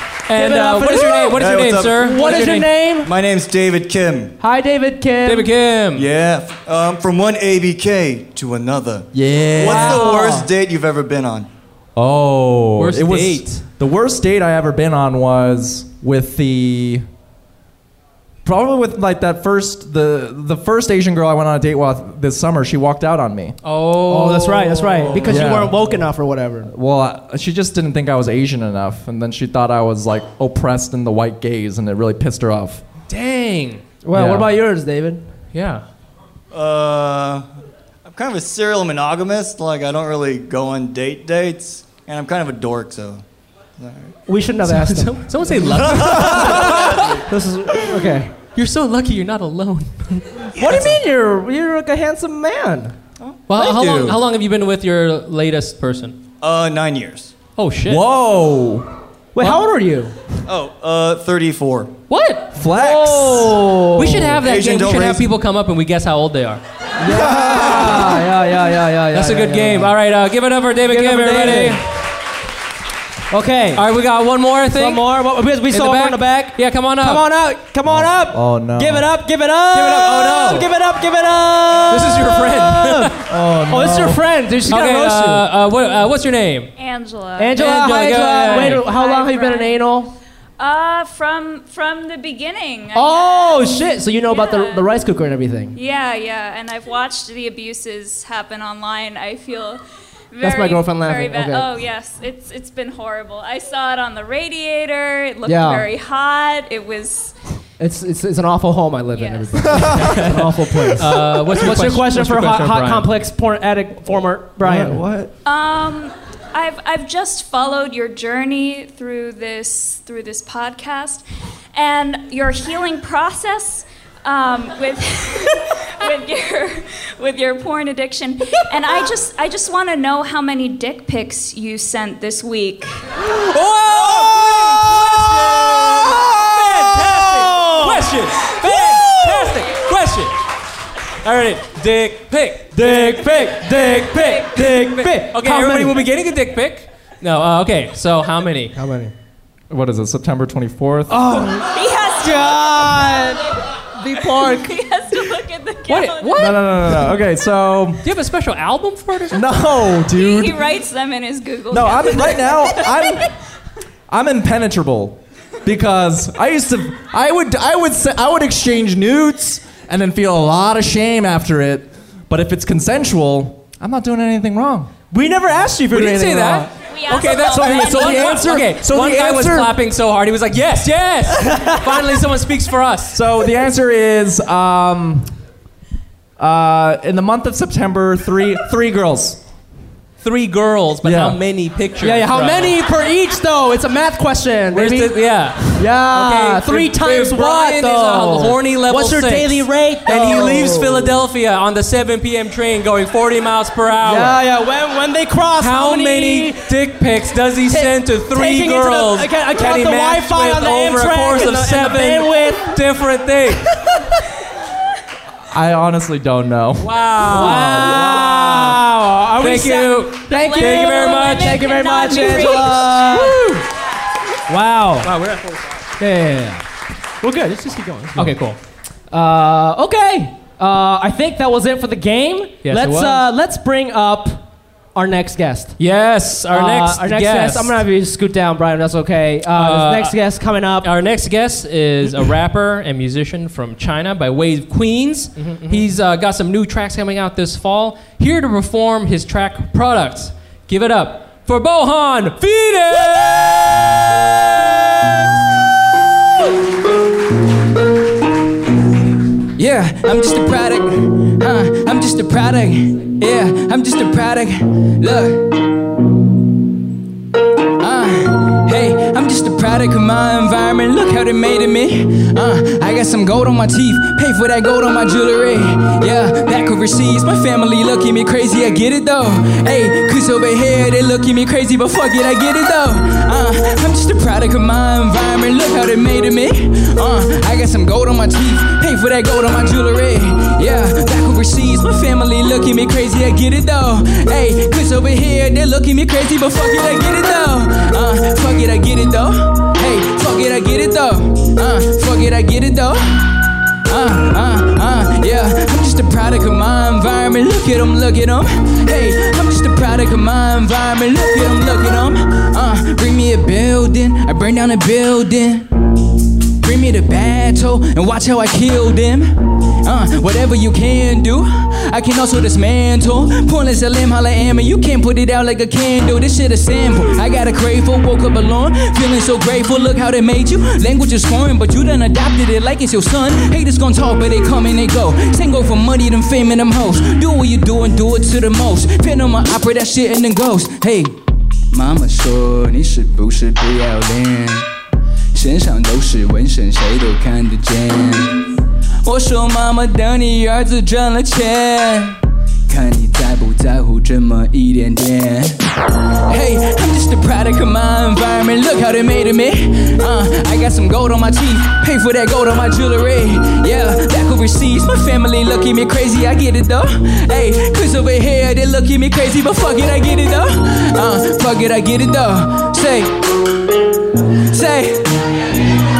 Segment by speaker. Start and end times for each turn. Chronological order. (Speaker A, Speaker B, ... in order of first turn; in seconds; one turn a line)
Speaker A: 0.3-2.7
Speaker B: 0.3-3.1
Speaker C: 1.4-2.1
Speaker C: 3.0-4.3
Speaker B: 4.4-5.5
Speaker A: 5.2-6.1
Speaker C: 5.9-11.5
Speaker D: 9.1-10.0
Speaker B: 9.6-10.5
Speaker D: 12.0-17.1
Speaker A: 12.8-13.6
Speaker D: 18.4-23.6
Speaker A: 23.6-25.5
Speaker B: 24.1-26.7
Speaker D: 25.2-25.8
Speaker D: 26.7-32.8
Speaker A: 33.1-33.8
Speaker B: 34.0-35.2
Speaker D: 34.1-34.5
Speaker A: 35.5-35.9
Speaker C: 36.5-37.5
Speaker C: 38.0-43.2
Speaker C: 43.8-44.1
Speaker B: 44.3-48.3
Speaker A: 44.6-47.2
Speaker C: 45.9-47.2
Speaker A: 48.5-51.0
Speaker B: 50.6-53.0
Speaker C: 53.2-54.2
Speaker A: 53.5-56.2
Speaker C: 56.4-57.3
Speaker A: 57.6-58.0
Speaker D: 57.9-58.9
Speaker B: 59.4-60.1
Speaker C: 60.5-62.0
Speaker A: 62.1-62.5
Speaker D: 62.5-63.7
Speaker B: 62.6-64.4
Speaker A: 64.0-66.6
Speaker C: 64.4-65.3
Speaker B: 67.0-69.9
Speaker D: 67.0-68.2
Speaker A: 69.1-71.8
Speaker B: 70.9-71.8
Speaker B: 73.3-73.8
Speaker A: 73.8-75.1
Speaker B: 74.7-85.5
Speaker A: 75.7-77.2
Speaker D: 77.9-79.1
Speaker A: 79.7-80.7
Speaker A: 81.9-83.2
Speaker D: 83.3-84.2
Speaker A: 84.7-86.7
Speaker E: 86.8-87.6
Speaker B: 87.4-90.1
Speaker A: 87.6-88.9
Speaker E: 88.5-89.8
Speaker E: 90.6-94.9
Speaker B: 92.9-95.8
Speaker E: 95.7-99.8
Speaker E: 100.3-107.3
Speaker B: 100.4-101.7
Speaker B: 105.5-105.9
Speaker B: 107.8-115.0
Speaker E: 109.2-110.0
Speaker D: 109.7-110.1
Speaker A: 110.1-113.1
Speaker D: 114.6-115.3
Speaker E: 115.4-121.2
Speaker E: 121.8-133.0
Speaker A: 133.2-140.4
Speaker B: 134.2-134.6
Speaker B: 135.8-139.5
Speaker A: 141.2-148.7
Speaker B: 142.7-146.0
Speaker E: 144.0-144.5
Speaker B: 148.8-149.1
Speaker D: 149.7-151.2
Speaker B: 151.1-153.4
Speaker E: 151.6-156.5
Speaker B: 154.0-154.7
Speaker A: 155.9-156.9
Speaker D: 156.4-158.1
Speaker A: 158.0-159.5
Speaker D: 159.3-160.6
Speaker E: 160.0-163.3
Speaker D: 161.7-163.3
Speaker D: 164.1-174.9
Speaker B: 175.1-176.7
Speaker A: 175.9-183.2
Speaker E: 176.8-178.5
Speaker D: 177.4-179.8
Speaker B: 181.4-181.8
Speaker D: 183.1-185.3
Speaker D: 186.4-189.4
Speaker A: 190.2-192.8
Speaker D: 191.0-191.4
Speaker B: 192.0-195.2
Speaker A: 194.7-204.4
Speaker B: 195.7-201.1
Speaker B: 204.0-206.7
Speaker A: 205.6-213.8
Speaker B: 207.7-212.8
Speaker D: 215.5-218.1
Speaker A: 216.8-218.8
Speaker B: 217.3-223.6
Speaker A: 219.4-221.8
Speaker E: 220.3-223.3
Speaker B: 224.5-225.1
Speaker A: 225.0-225.6
Speaker B: 226.0-226.6
Speaker B: 227.2-228.3
Speaker A: 228.2-228.6
Speaker B: 229.1-234.4
Speaker A: 232.6-233.3
Speaker B: 234.9-235.8
Speaker A: 235.8-237.8
Speaker B: 236.5-240.9
Speaker A: 239.5-240.2
Speaker A: 240.8-253.8
Speaker B: 245.4-245.9
Speaker F: 259.6-265.6
Speaker F: 267.8-303.3
Speaker F: 303.9-315.7
Speaker F: 316.6-341.2
Speaker F: 341.7-344.7
Speaker F: 345.3-355.6
Speaker F: 356.3-373.2
Speaker F: 374.5-375.4